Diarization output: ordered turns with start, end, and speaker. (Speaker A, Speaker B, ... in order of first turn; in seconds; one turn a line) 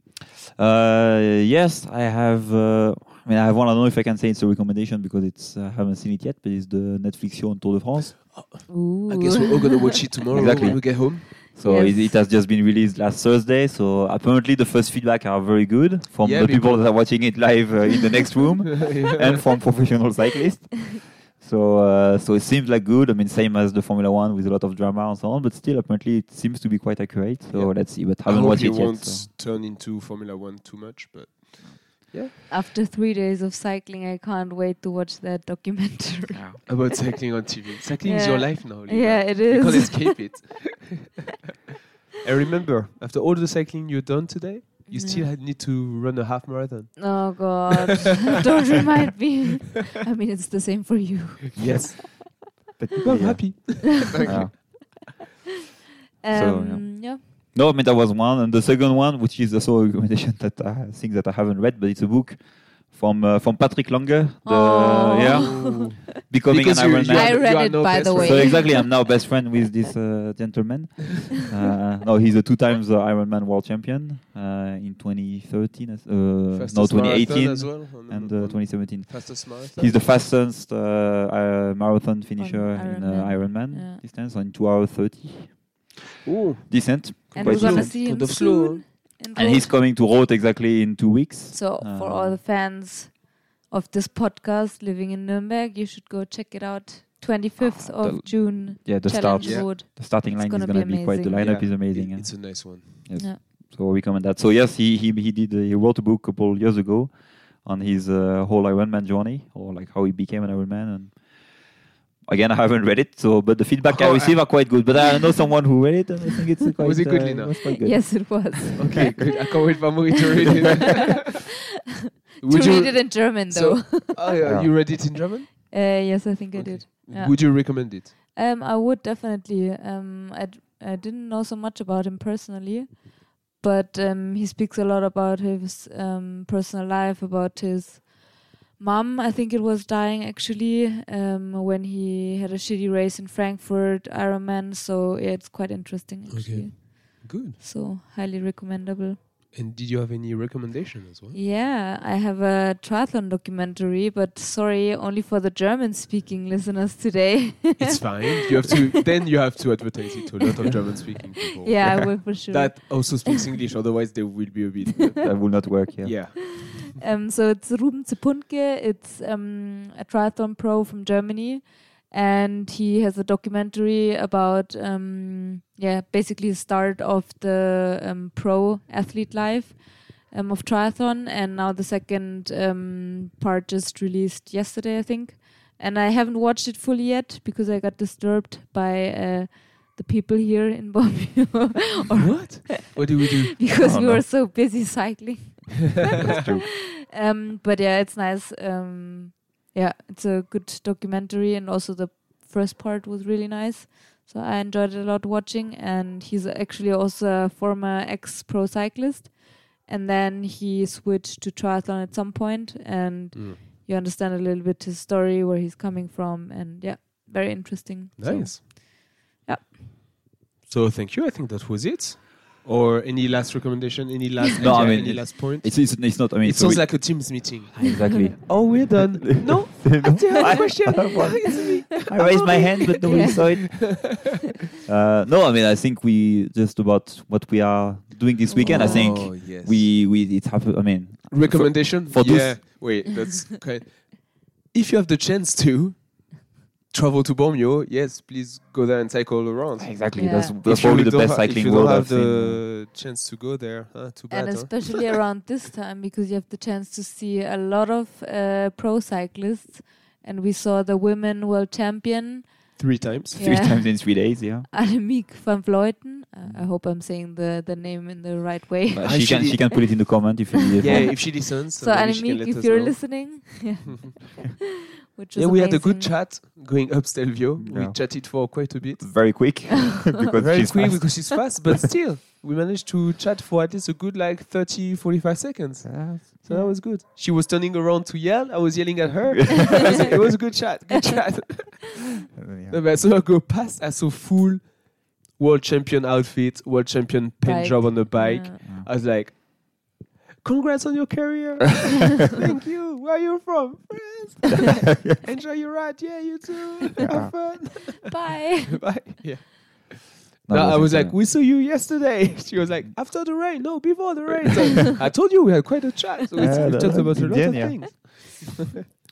Speaker A: 0.6-8.3
Speaker B: 8.3-11.3
Speaker C: 8.7-9.9
Speaker A: 10.3-29.3
Speaker C: 11.5-12.2
Speaker B: 16.2-17.4
Speaker B: 18.7-19.4
Speaker B: 27.5-32.3
Speaker C: 32.5-37.4
Speaker A: 36.3-36.6
Speaker B: 36.7-41.1
Speaker C: 38.0-40.3
Speaker B: 42.1-47.7
Speaker C: 44.9-45.3
Speaker C: 47.0-52.3
Speaker B: 51.5-54.6
Speaker A: 52.9-55.0
Speaker C: 54.1-54.6
Speaker C: 56.2-57.2
Speaker A: 56.3-85.8
Speaker C: 64.4-66.0
Speaker B: 65.2-68.7
Speaker C: 67.1-69.0
Speaker B: 76.5-80.0
Speaker C: 82.4-84.0
Speaker B: 86.2-88.8
Speaker A: 86.7-87.9
Speaker C: 87.3-89.7
Speaker A: 89.3-92.4
Speaker C: 91.5-101.4
Speaker A: 97.6-111.6
Speaker B: 99.4-99.7
Speaker B: 101.3-103.0
Speaker A: 112.2-119.2
Speaker B: 113.8-114.7
Speaker B: 116.8-117.6
Speaker C: 117.8-119.5
Speaker B: 118.8-121.3
Speaker C: 120.4-121.0
Speaker C: 122.4-124.4
Speaker B: 122.4-125.9
Speaker A: 124.4-124.9
Speaker C: 125.7-149.2
Speaker B: 126.5-128.1
Speaker B: 146.3-147.6
Speaker B: 149.5-151.4
Speaker C: 151.3-158.4
Speaker B: 157.8-167.0
Speaker C: 161.6-163.3
Speaker A: 165.2-166.4
Speaker C: 166.6-196.5
Speaker B: 192.2-193.7
Speaker A: 193.8-194.2
Speaker A: 196.1-196.7
Speaker C: 197.0-219.8
Speaker B: 213.3-213.6
Speaker B: 218.2-218.6
Speaker A: 218.2-218.5
Speaker B: 220.6-234.1
Speaker A: 224.6-242.7
Speaker C: 232.6-233.9
Speaker C: 238.5-239.3
Speaker B: 238.7-239.9
Speaker B: 241.3-255.2
Speaker A: 249.8-252.6
Speaker C: 250.1-250.6
Speaker C: 254.3-269.5
Speaker B: 262.8-263.4
Speaker A: 263.4-264.7
Speaker A: 268.9-271.2
Speaker B: 269.0-270.1
Speaker C: 270.8-274.6
Speaker B: 270.8-273.9
Speaker C: 275.1-276.2
Speaker B: 275.3-279.4
Speaker A: 277.6-281.7
Speaker B: 280.4-292.0
Speaker A: 285.8-286.3
Speaker C: 286.5-286.8
Speaker A: 292.4-292.8
Speaker B: 292.7-318.6
Speaker C: 297.4-298.6
Speaker A: 304.6-305.2
Speaker A: 307.1-307.8
Speaker C: 308.1-308.8
Speaker A: 310.5-311.2
Speaker A: 316.4-318.4
Speaker C: 316.4-316.7